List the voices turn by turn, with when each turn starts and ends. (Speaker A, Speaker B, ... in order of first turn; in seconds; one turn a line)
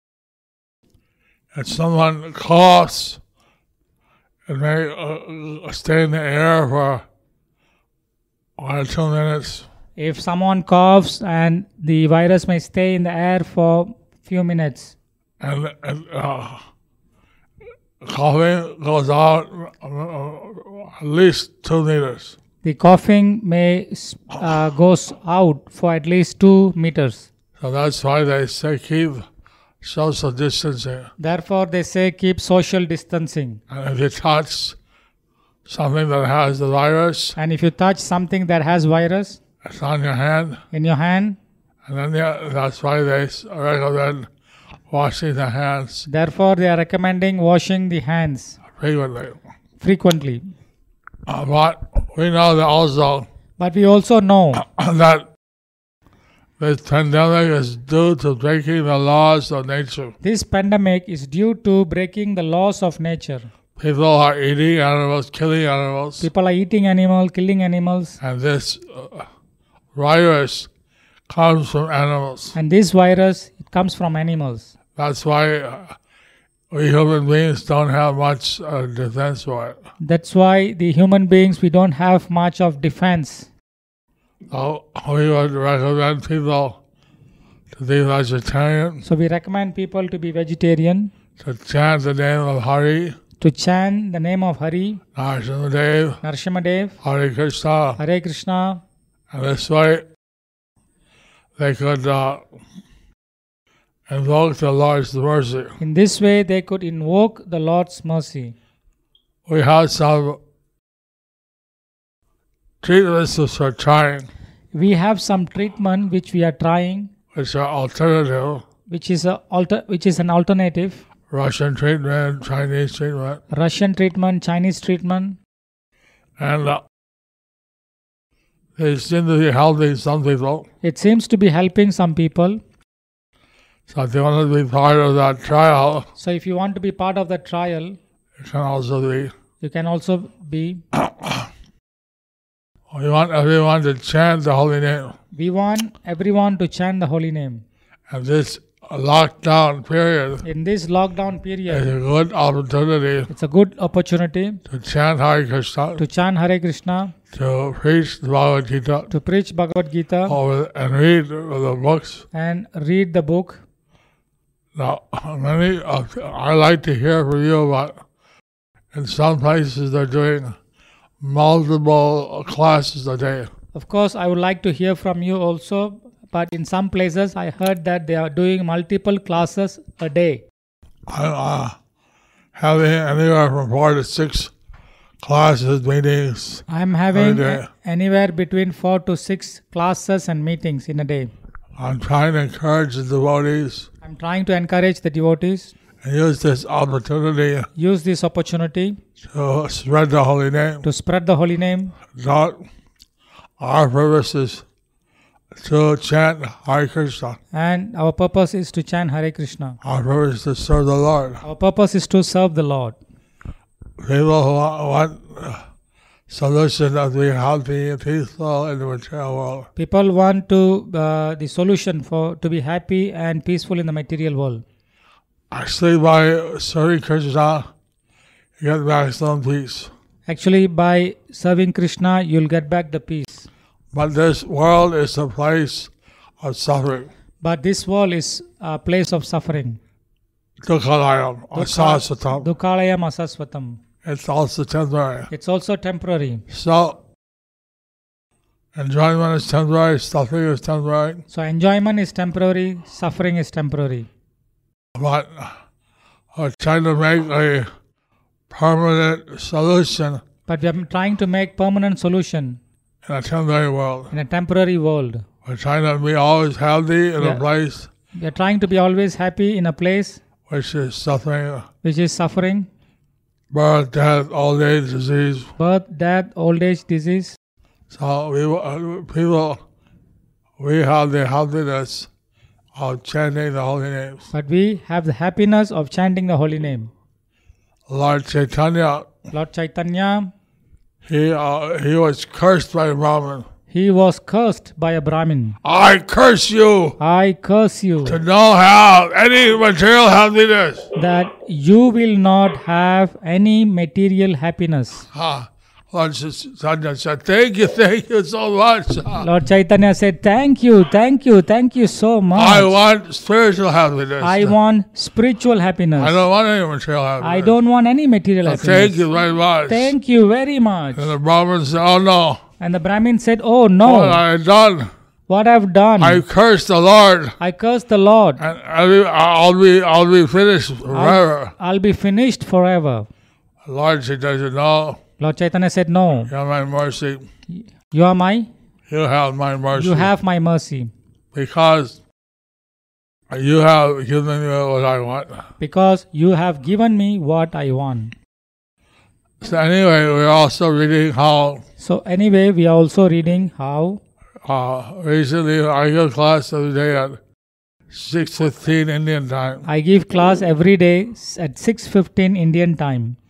Speaker A: 1.5-3.2
Speaker A: 4.5-7.0
Speaker A: 8.6-9.7
Speaker B: 10.0-14.9
Speaker A: 15.4-16.7
Speaker A: 18.0-22.4
Speaker B: 22.6-27.3
Speaker A: 27.6-29.2
Speaker A: 29.8-31.1
Speaker B: 31.2-33.6
Speaker A: 33.7-34.8
Speaker A: 35.6-37.3
Speaker B: 37.4-39.4
Speaker A: 39.6-40.6
Speaker B: 40.7-41.4
Speaker A: 41.9-44.3
Speaker A: 44.9-46.1
Speaker B: 46.1-48.6
Speaker A: 48.7-49.4
Speaker B: 49.8-50.5
Speaker A: 51.2-53.3
Speaker B: 53.6-54.6
Speaker A: 54.5-55.3
Speaker A: 56.6-60.1
Speaker B: 60.2-63.5
Speaker A: 63.8-66.3
Speaker B: 66.2-68.2
Speaker A: 68.2-69.3
Speaker A: 69.9-70.7
Speaker A: 71.3-72.5
Speaker B: 72.5-74.7
Speaker A: 74.9-76.0
Speaker A: 76.7-79.8
Speaker B: 80.0-83.5
Speaker A: 84.5-86.8
Speaker A: 87.7-89.0
Speaker B: 89.0-91.1
Speaker A: 91.4-93.2
Speaker B: 93.4-95.0
Speaker A: 95.1-96.2
Speaker B: 96.2-97.0
Speaker A: 97.0-98.0
Speaker B: 98.0-98.8
Speaker A: 99.3-100.1
Speaker A: 101.6-102.5
Speaker A: 104.1-105.8
Speaker B: 105.8-108.5
Speaker A: 109.5-110.4
Speaker A: 112.8-114.3
Speaker B: 114.7-117.1
Speaker A: 117.3-118.6
Speaker B: 118.9-121.0
Speaker A: 121.3-123.4
Speaker B: 123.5-125.4
Speaker A: 126.4-126.8
Speaker A: 128.8-130.7
Speaker B: 130.8-132.6
Speaker A: 133.9-136.1
Speaker B: 136.2-138.0
Speaker A: 138.4-139.3
Speaker B: 139.6-140.8
Speaker A: 140.9-141.5
Speaker A: 142.9-145.2
Speaker B: 145.3-147.6
Speaker A: 148.1-150.4
Speaker B: 150.4-151.9
Speaker A: 151.7-153.3
Speaker B: 153.3-154.6
Speaker A: 154.7-156.0
Speaker B: 156.0-157.1
Speaker A: 157.3-159.1
Speaker B: 159.1-160.4
Speaker A: 160.3-162.2
Speaker B: 162.3-163.6
Speaker A: 164.7-168.0
Speaker A: 168.9-170.6
Speaker A: 171.2-173.5
Speaker B: 173.7-180.4
Speaker A: 181.1-181.8
Speaker A: 182.5-184.5
Speaker A: 185.2-187.7
Speaker B: 186.7-191.3
Speaker A: 191.8-193.9
Speaker B: 194.0-195.7
Speaker A: 196.0-197.7
Speaker B: 197.8-199.0
Speaker A: 199.2-200.8
Speaker B: 200.8-201.9
Speaker A: 202.1-202.6
Speaker A: 203.6-204.6
Speaker A: 205.5-207.4
Speaker B: 207.5-209.8
Speaker A: 209.8-211.4
Speaker B: 211.4-213.0
Speaker A: 214.0-215.7
Speaker A: 216.3-219.7
Speaker B: 219.8-224.6
Speaker A: 225.5-227.7
Speaker A: 228.6-229.9
Speaker B: 230.3-233.5
Speaker A: 233.9-237.1
Speaker B: 237.4-239.8
Speaker A: 240.6-242.5
Speaker B: 241.5-243.8
Speaker A: 244.0-245.3
Speaker B: 245.3-246.4
Speaker A: 246.5-247.0
Speaker A: 248.7-251.2
Speaker B: 251.3-254.1
Speaker A: 254.9-255.6
Speaker A: 256.3-257.7
Speaker A: 258.5-260.2
Speaker B: 260.5-262.6
Speaker A: 263.0-264.1
Speaker B: 264.1-265.2
Speaker A: 265.4-267.9
Speaker B: 268.1-270.2
Speaker A: 270.5-271.7
Speaker B: 271.8-272.7
Speaker A: 273.5-275.5
Speaker B: 275.6-277.4
Speaker A: 277.9-279.6
Speaker A: 280.6-282.1
Speaker A: 282.7-284.3
Speaker B: 284.3-286.9
Speaker A: 287.9-289.1
Speaker B: 289.3-290.3
Speaker A: 291.0-293.5
Speaker B: 293.7-295.6
Speaker A: 295.6-297.0
Speaker B: 297.0-298.2
Speaker A: 298.0-300.9
Speaker B: 301.0-305.1
Speaker A: 305.1-309.3
Speaker B: 309.2-312.7
Speaker A: 312.3-314.6
Speaker B: 314.2-316.2
Speaker A: 315.9-317.6
Speaker B: 317.2-319.0
Speaker A: 318.4-319.9
Speaker B: 319.7-321.1
Speaker A: 320.9-322.4
Speaker B: 322.6-324.2
Speaker A: 323.8-324.9
Speaker B: 325.3-326.2
Speaker A: 326.0-327.4
Speaker B: 327.4-328.4
Speaker A: 328.4-331.5
Speaker B: 330.9-333.1
Speaker A: 333.6-335.0
Speaker B: 335.2-336.3
Speaker A: 336.3-337.2
Speaker B: 337.5-338.5
Speaker A: 338.9-340.1
Speaker B: 339.7-340.9
Speaker A: 341.3-342.0
Speaker A: 343.3-345.5
Speaker B: 345.6-348.1
Speaker A: 349.4-351.6
Speaker B: 351.8-354.0
Speaker A: 354.4-357.2
Speaker A: 357.9-359.6
Speaker B: 359.6-363.1